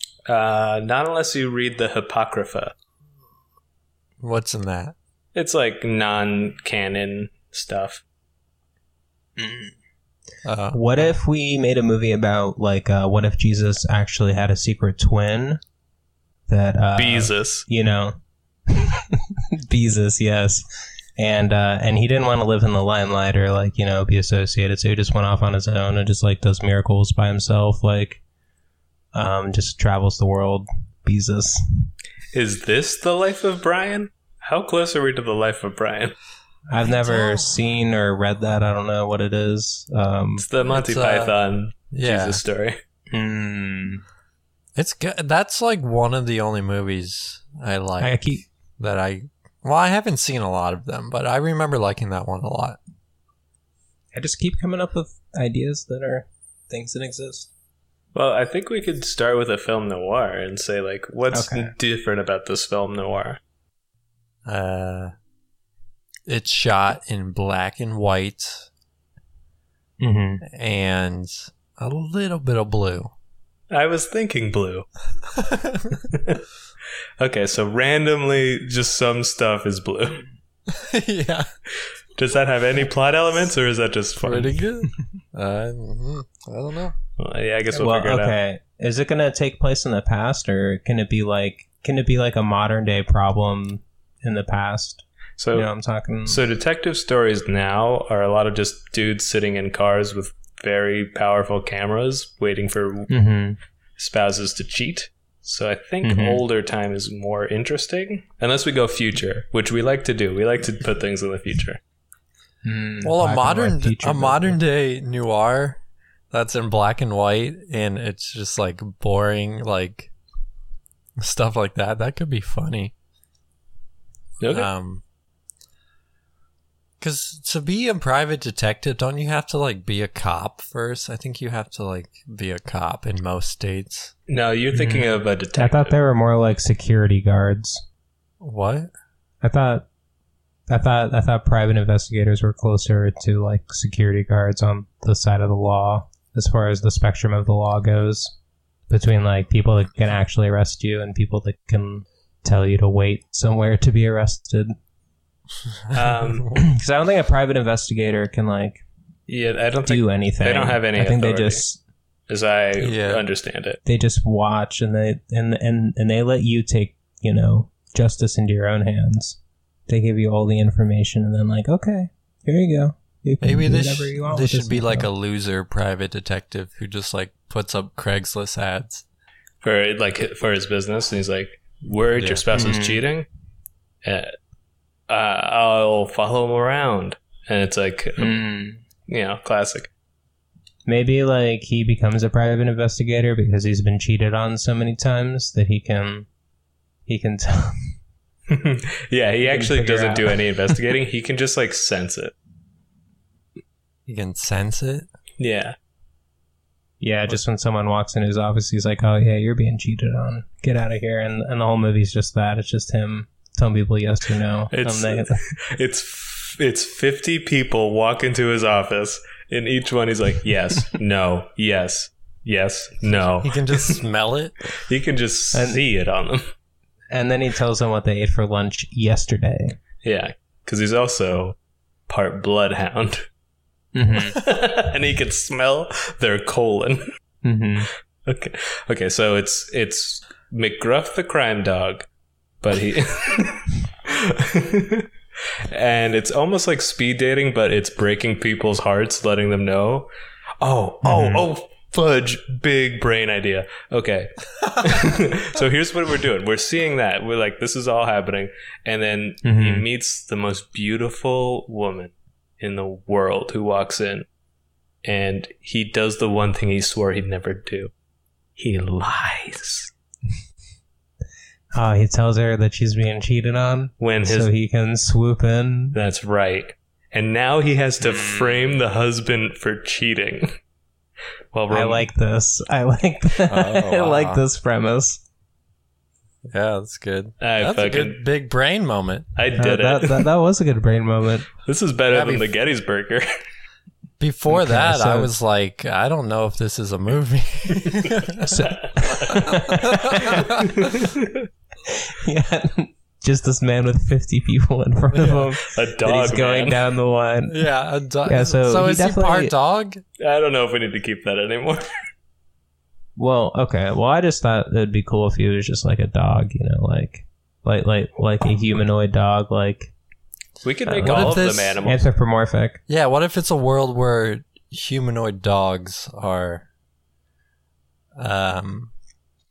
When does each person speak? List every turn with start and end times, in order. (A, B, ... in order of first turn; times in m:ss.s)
0:00.3-0:02.7 A
0:04.2-0:05.0 B
0:05.4-0:08.0 A
0:09.4-0:09.7 C
0:10.4-0:10.8 B
0:10.7-0:15.6 C
0:16.5-0:18.2 C
0:17.0-0:17.7 A
0:18.7-0:20.7 C
0:21.2-0:28.2 C
0:29.1-0:31.9 C
0:32.3-0:36.2 A
0:36.7-0:40.4 C
0:36.9-0:37.5 B
0:40.4-0:42.8 A
0:40.7-0:41.3 B
0:41.9-0:42.4 B
0:43.1-0:44.0 C
0:44.8-0:48.2 B
0:48.0-0:48.5 C
0:48.8-0:52.8 B
0:54.1-0:57.5 C
0:58.2-1:03.4 A
1:01.3-1:01.7 C
1:04.5-1:05.1 B
1:06.3-1:08.7 B
1:10.0-1:10.4 C
1:10.4-1:13.1 B
1:13.7-1:14.9 A
1:15.4-1:15.9 B
1:16.0-1:16.4 A
1:17.2-1:20.2 A
1:20.7-1:21.5 B
1:22.2-1:24.5 A
1:24.2-1:27.0 B
1:27.2-1:28.3 A
1:27.7-1:36.4 C
1:35.4-1:35.7 A
1:36.2-1:43.1 A
1:43.1-1:43.6 C
1:44.0-1:51.8 A
1:46.0-1:46.4 C
1:52.6-1:54.6 C
1:53.0-1:55.8 B
1:56.3-2:00.1 B
2:01.2-2:02.9 B
2:04.4-2:04.7 A
2:04.5-2:05.0 B
2:07.0-2:14.1 B
2:14.3-2:16.0 A
2:14.7-2:17.8 C
2:18.4-2:18.9 B
2:19.4-2:19.8 C
2:20.7-2:28.3 C
2:28.9-2:34.7 C
2:35.9-2:36.5 A
2:36.5-2:38.8 C
2:39.3-2:41.6 A
2:39.9-2:41.8 C
2:42.3-2:43.8 A
2:42.8-2:43.2 B
2:43.8-2:55.1 C
2:53.4-2:59.0 B
2:59.6-3:03.3 A
3:02.2-3:02.4 B
3:02.5-3:03.0 C
3:04.0-3:04.3 A
3:05.1-3:08.3 A
3:08.2-3:08.8 C
3:09.1-3:09.9 A
3:10.9-3:16.3 C
3:17.1-3:17.9 C
3:18.5-3:22.3 A
3:19.5-3:20.4 C
3:24.1-3:25.1 B
3:25.4-3:25.8 A
3:27.0-3:35.4 C
3:34.7-3:44.0 A
3:43.4-3:44.5 B
3:44.9-3:46.4 A
3:45.5-3:45.8 C
3:47.1-3:49.8 C
3:50.0-3:51.6 A
3:52.1-3:53.3 A
3:53.9-3:54.4 C
3:54.1-3:57.1 A
3:57.4-3:57.9 C
3:58.3-4:02.1 A
4:02.6-4:05.1 A
4:05.7-4:10.1 A
4:10.6-4:24.3 A
4:11.0-4:11.4 C
4:19.4-4:19.8 C
4:25.0-4:27.9 A
4:28.6-4:29.9 A
4:31.7-4:36.0 C
4:34.0-4:34.5 A
4:35.9-4:40.6 A
4:38.0-4:38.6 C
4:41.5-4:42.0 A
4:41.7-4:45.2 C
4:43.5-4:44.4 B
4:46.5-4:49.3 B
4:47.4-4:48.2 A
4:49.4-4:50.3 A
4:49.6-4:51.5 C
4:51.6-4:53.3 A
4:52.1-4:52.5 B
4:54.2-4:58.6 B
4:54.5-4:55.3 C
4:57.8-5:01.5 A
4:58.5-5:00.7 C
4:59.3-5:00.6 B
5:01.9-5:07.6 C
5:05.1-5:05.4 B
5:05.6-5:06.8 A
5:07.5-5:10.0 B
5:08.3-5:09.5 C
5:10.2-5:11.8 A
5:13.2-5:19.9 C
5:20.6-5:22.0 A
5:20.9-5:21.3 C
5:21.0-5:21.8 B
5:21.8-5:22.8 C
5:22.9-5:26.7 B
5:28.2-5:28.9 B